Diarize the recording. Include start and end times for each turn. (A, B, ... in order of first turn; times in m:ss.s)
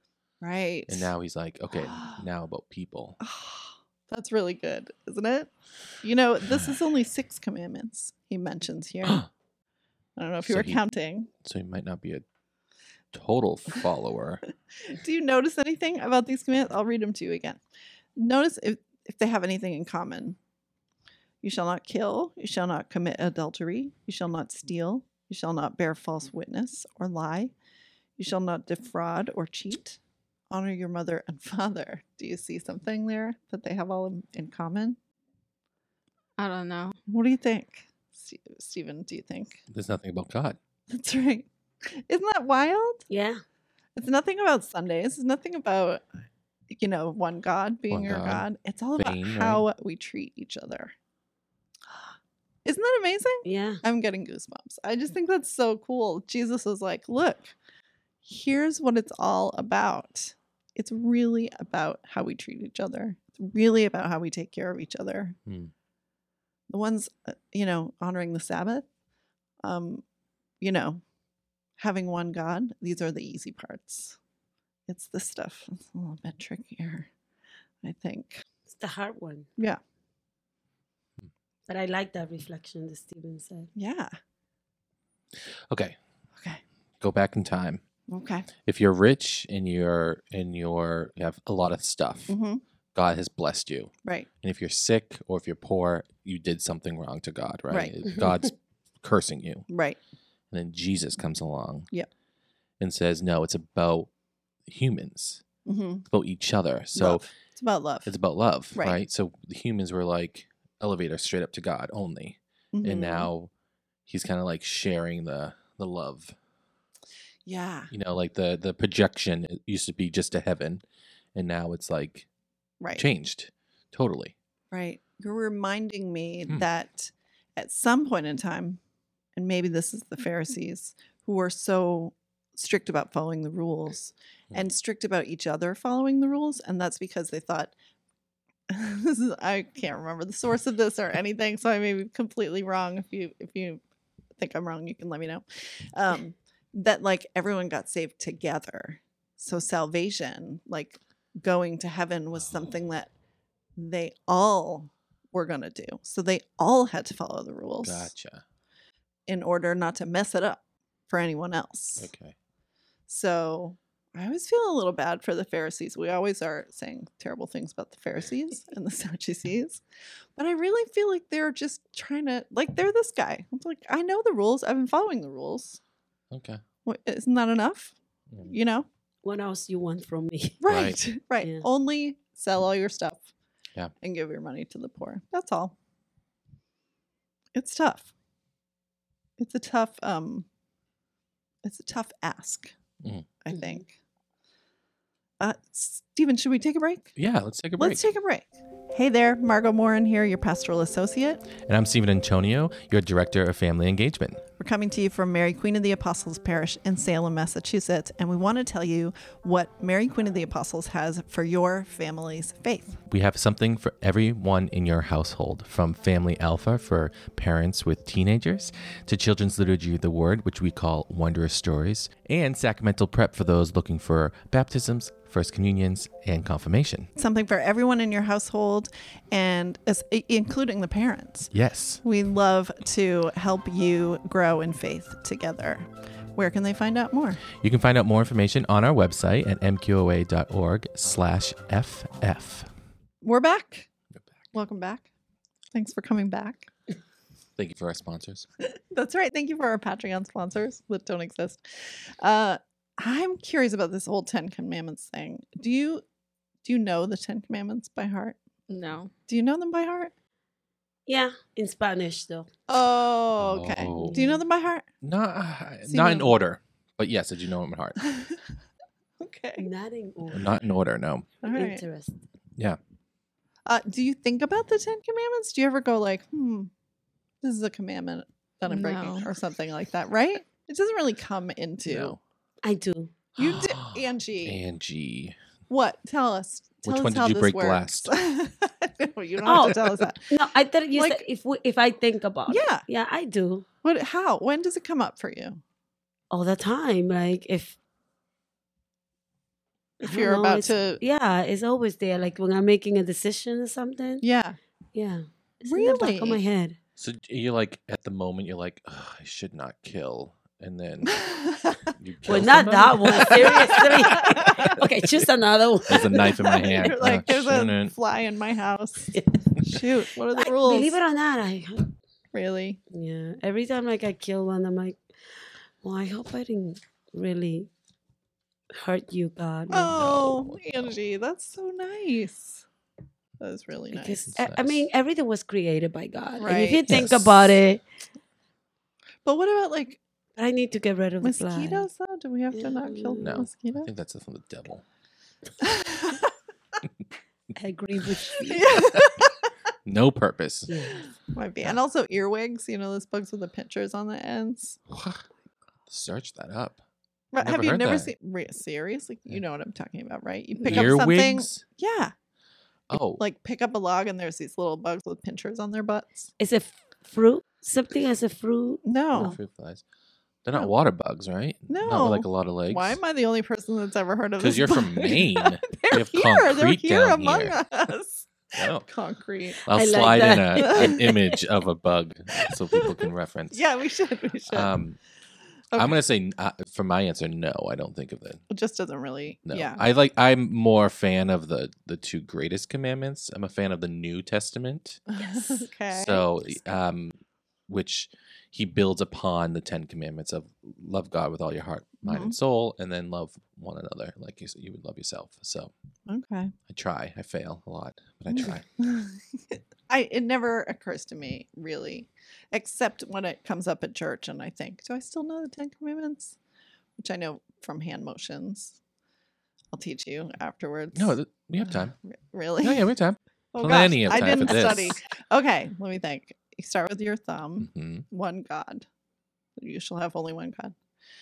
0:00.4-0:01.1 A
0:00.9-0:03.2 B
0:01.8-0:02.2 A
0:03.2-0:05.5 A
0:06.0-0:09.2 A
0:10.2-0:11.3 A
0:10.4-0:10.8 B
0:11.4-0:12.2 B
0:13.1-0:14.4 B
0:14.8-0:17.6 A
0:18.2-0:20.4 A
0:21.4-0:27.5 A
0:28.2-0:30.0 A
0:30.5-0:35.0 A
0:36.4-0:37.0 C
0:37.1-0:39.6 A
0:39.7-0:40.6 B
0:40.9-0:43.0 A
0:43.1-0:43.4 D
0:44.0-0:46.0 A
0:46.7-0:50.9 A
0:47.9-0:48.5 B
0:49.0-0:49.6 B
0:52.6-0:57.5 A
0:53.4-0:53.8 D
0:58.2-1:05.4 A
1:05.5-1:05.7 B
1:06.7-1:08.8 A
1:09.6-1:10.0 A
1:10.6-1:11.0 A
1:11.8-1:14.2 A
1:14.9-1:17.1 A
1:17.8-1:18.4 A
1:18.7-1:19.5 D
1:21.7-1:23.7 D
1:23.7-1:24.1 A
1:25.3-1:26.0 B
1:27.0-1:27.8 B
1:28.1-1:28.5 A
1:28.6-1:32.4 B
1:32.3-1:32.6 A
1:32.9-1:39.6 B
1:38.1-1:38.4 D
1:39.7-1:40.0 A
1:40.5-1:41.9 B
1:42.8-1:44.1 B
1:44.7-1:45.4 B
1:45.6-1:46.0 A
1:46.1-1:47.2 B
1:46.9-1:48.1 A
1:48.0-1:53.5 B
1:48.7-1:49.0 A
1:52.7-1:53.3 A
1:54.0-1:56.3 B
1:57.4-1:57.9 A
1:57.9-2:00.8 B
2:01.3-2:02.3 B
2:02.8-2:03.0 A
2:02.9-2:04.3 B
2:04.7-2:08.8 A
2:09.4-2:17.7 A
2:18.7-2:23.8 A
2:24.4-2:33.1 A
2:33.8-2:38.1 A
2:37.8-2:38.4 B
2:39.3-2:42.1 A
2:42.0-2:42.4 B
2:43.1-2:49.8 A
2:50.4-2:55.8 A
2:56.3-2:56.6 B
2:56.8-2:58.8 A
2:59.2-3:00.6 D
3:00.6-3:03.3 A
3:00.7-3:01.0 B
3:01.4-3:01.7 D
3:04.0-3:05.7 A
3:07.5-3:08.1 A
3:09.4-3:10.4 A
3:11.6-3:12.7 A
3:13.0-3:13.3 B
3:13.4-3:13.9 A
3:13.5-3:13.8 D
3:15.4-3:17.1 A
3:17.2-3:18.1 B
3:17.8-3:21.5 A
3:21.6-3:24.4 B
3:24.6-3:33.0 A
3:33.1-3:47.1 B
3:47.2-3:51.5 A
3:51.5-3:52.0 B
3:52.0-3:57.4 A
3:57.6-4:02.7 B
4:03.2-4:03.9 A
4:04.5-4:05.1 A
4:05.7-4:06.7 A
4:07.6-4:08.5 B
4:08.9-4:16.0 A
4:16.6-4:18.4 A
4:18.7-4:19.1 C
4:19.3-4:20.1 A
4:21.0-4:22.5 D
4:22.7-4:24.9 A
4:23.4-4:24.3 B
4:23.9-4:24.4 D
4:25.0-4:28.0 B
4:25.8-4:26.4 A
4:28.0-4:28.4 A
4:29.2-4:29.7 A
4:29.6-4:30.5 D
4:30.3-4:31.3 B
4:31.4-4:31.8 A
4:31.5-4:32.2 D
4:33.6-4:36.7 A
4:37.4-4:42.2 A
4:38.7-4:39.3 C
4:41.8-4:42.2 B
4:42.6-4:43.1 D
4:43.4-4:44.6 A
4:43.4-4:45.3 B
4:45.7-4:50.3 A
4:46.8-4:48.1 B
4:49.4-4:53.6 D
4:50.9-4:51.2 A
4:52.5-4:52.8 A
4:53.8-4:55.6 A
4:56.3-4:57.8 D
5:00.0-5:01.0 A
5:00.0-5:04.2 D
5:04.2-5:04.6 A
5:04.9-5:06.8 D
5:05.6-5:06.4 A
5:07.0-5:11.2 B
5:11.1-5:11.9 A
5:12.0-5:14.2 B
5:12.2-5:16.9 D
5:13.0-5:14.8 A
5:15.9-5:17.9 B
5:16.3-5:21.0 A
5:20.3-5:21.9 D
5:22.3-5:22.8 A
5:22.9-5:25.0 D
5:25.8-5:27.7 D
5:28.7-5:30.1 D
5:29.7-5:32.6 A
5:29.9-5:30.9 B
5:33.4-5:34.2 A
5:33.9-5:37.8 D
5:34.3-5:34.8 B
5:36.4-5:36.9 A
5:36.9-5:37.6 B
5:39.2-5:40.0 A
5:40.4-5:41.9 D
5:41.2-5:43.9 A
5:42.5-5:43.5 D
5:43.2-5:44.8 B
5:45.6-5:46.3 A
5:47.6-5:48.7 D
5:48.4-5:49.3 A
5:49.8-5:50.8 B
5:50.7-5:51.0 D
5:51.3-5:54.8 A
5:54.9-5:55.2 B
5:55.9-5:56.8 B
5:57.3-6:02.1 A
5:57.4-5:58.1 B
6:00.6-6:00.9 C
6:00.6-6:01.6 B
6:02.9-6:03.2 B
6:03.2-6:06.3 A
6:06.4-6:09.4 D
6:08.8-6:09.4 A
6:09.1-6:09.8 B
6:10.4-6:13.0 B
6:11.7-6:19.6 A
6:14.4-6:17.6 B
6:18.6-6:18.8 B
6:19.6-6:21.2 D
6:19.7-6:23.6 B
6:20.6-6:21.0 A
6:22.4-6:24.7 A
6:24.5-6:25.0 B
6:25.8-6:28.4 B
6:28.5-6:29.8 A
6:29.5-6:37.2 B
6:35.1-6:36.3 A
6:37.7-6:45.7 B
6:42.0-6:42.3 A
6:46.1-6:46.5 A
6:46.7-6:48.6 B
6:48.3-6:56.4 A
6:57.0-6:58.8 A
6:59.7-7:02.9 A
7:00.9-7:01.9 B
7:02.6-7:05.0 B
7:03.5-7:08.8 A
7:04.3-7:04.9 D
7:07.6-7:08.0 B
7:09.6-7:10.7 A